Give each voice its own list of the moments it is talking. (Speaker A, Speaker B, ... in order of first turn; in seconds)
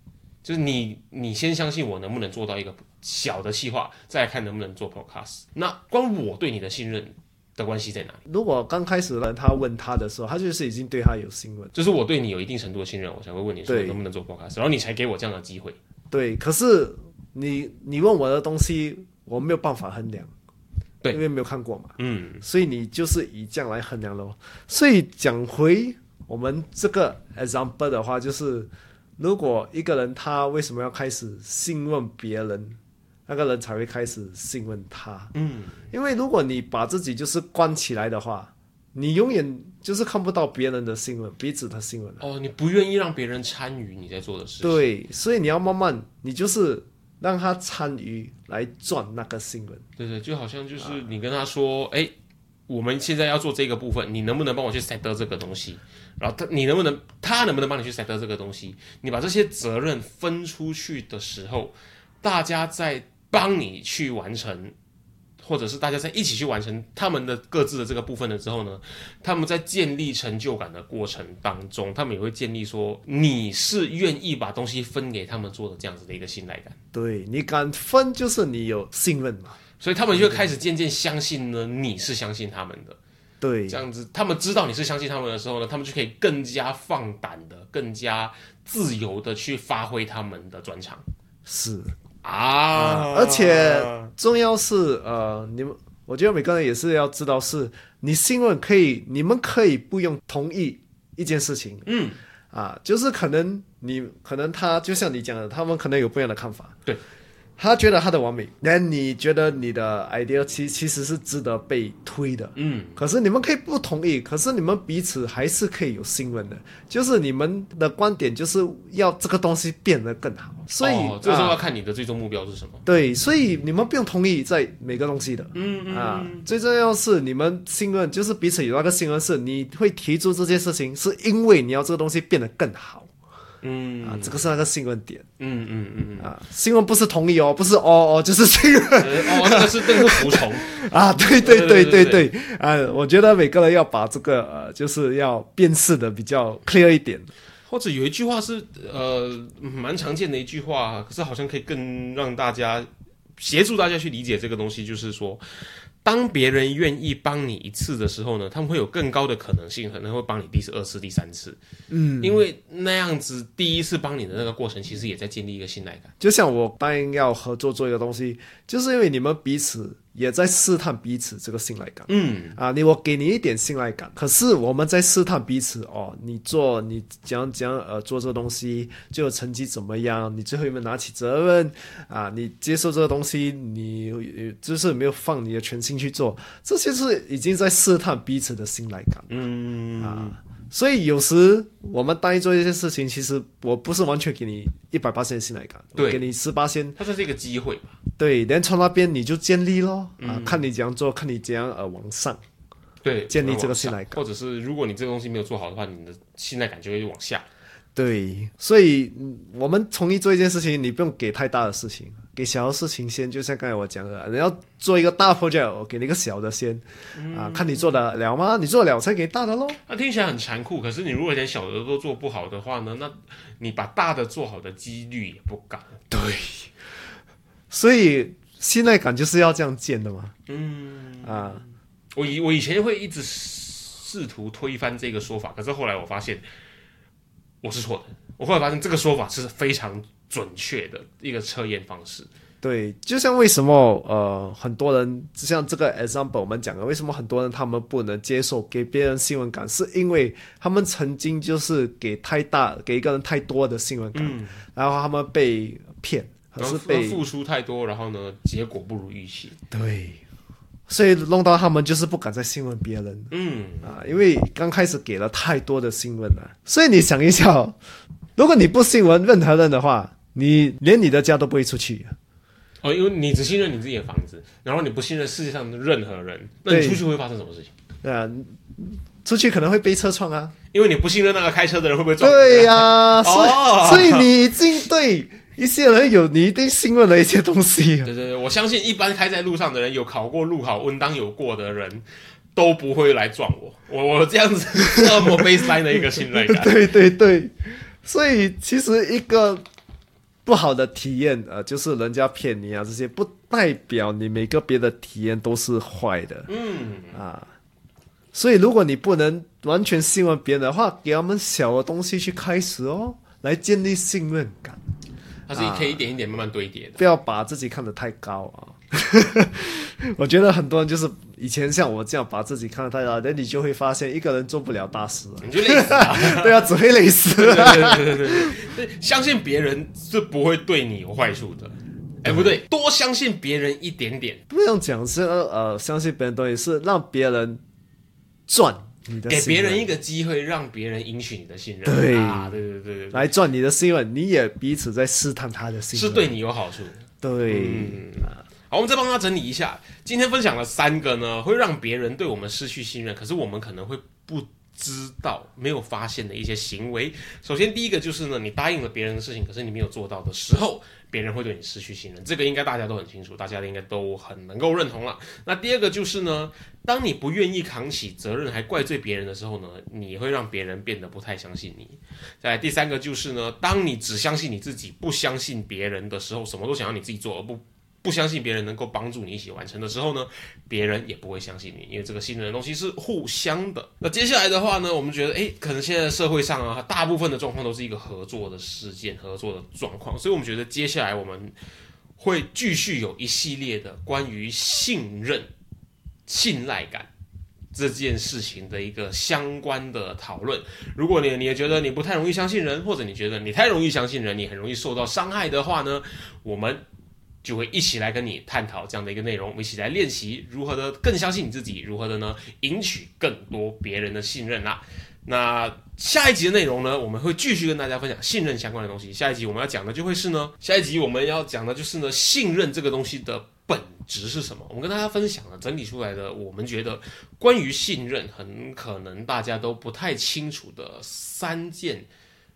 Speaker A: 0.4-8.2, 11.7-15.8, 22.0-22.4, 35.3-35.8, 42.2-44.8, 50.0-52.1, 52.7-64.7, 65.4-76.8, 79.8-83.0, 83.7-91.0, 92.2-94.1, 101.8-102.2, 112.5-113.0, 120.8-122.8, 125.5-126.4, 133.6-134.5, 135.4-136.3, 139.0-140.7, 141.4-142.3, 147.7-161.6, 162.2-166.1, 172.1-172.6, 189.3-190.4, 195.9-196.2, 197.0-198.0, 200.2-200.6, 203.0-207.4, 217.1-218.0, 219.8-225.9, 230.5-231.6, 232.1-236.4, 237.6-242.3, 254.1-254.6, 256.6-259.6, 263.3-263.9, 272.8-277.7, 280.7-284.3, 288.0-296.8, 306.5-307.2, 315.5-317.0, 325.4-326.6, 327.3-334.4, 339.3-343.3, 345.9-391.5, 392.2-395.5, 396.3-397.1, 397.7-406.8, 407.4-432.1
Speaker B: 8.2-11.7, 13.7-14.0, 16.1-20.3, 21.1-35.3, 35.9-42.2, 44.6-49.9, 76.9-79.6, 80.1-80.5, 83.4-83.8, 91.5-91.9, 92.7-101.9, 102.5-106.8, 107.6-121.6, 122.8-133.1, 134.0-135.2, 136.2-147.3, 161.9-162.4, 166.2-189.3, 190.0-197.0, 198.2-202.4, 203.3-204.2, 207.9-219.8, 226.1-226.7, 227.7-230.3, 231.2-231.6, 242.6-257.2, 259.7-260.2, 260.9-267.8, 268.4-272.1, 276.7-277.0, 278.0-280.5, 282.2-288.1, 296.2-299.6, 300.4-306.5, 307.1-307.5, 308.3-314.8, 315.5-316.0, 317.0-328.6, 334.5-337.6, 338.5-339.9, 341.8-342.6, 343.1-346.3, 347.2-348.4